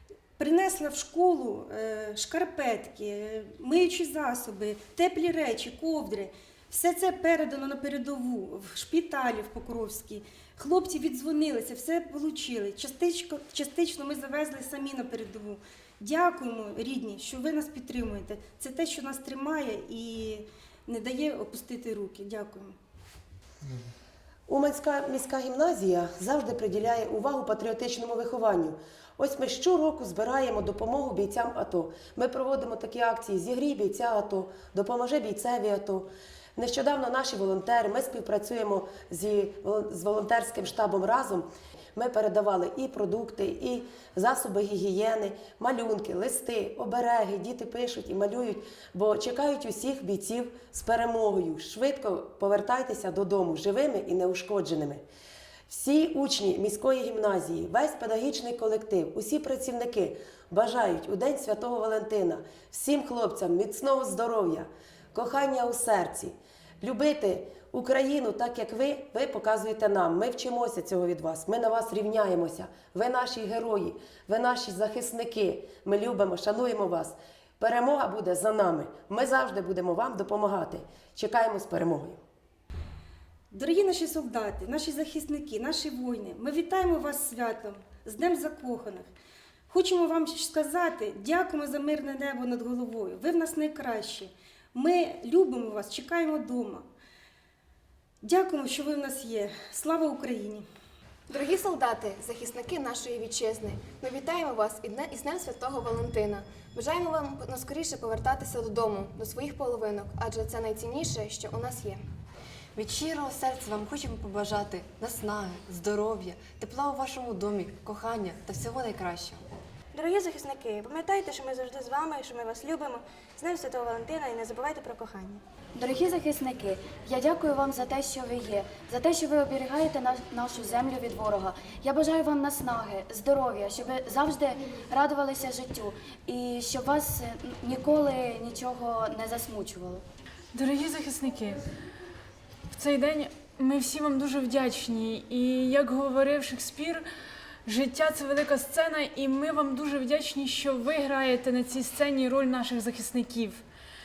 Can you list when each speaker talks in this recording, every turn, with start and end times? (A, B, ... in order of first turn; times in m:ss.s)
0:00.4-0:22.8 A
0:24.5-0:55.0 B
0:55.7-1:22.2 B
1:23.5-1:29.1 A
1:29.7-1:36.9 A
1:38.2-1:40.6 A
1:41.3-1:52.0 C
1:52.8-1:59.4 D
1:59.9-2:05.4 E
2:05.7-2:20.0 F
2:20.5-2:21.6 G
2:22.7-2:27.0 G
2:27.6-2:33.6 G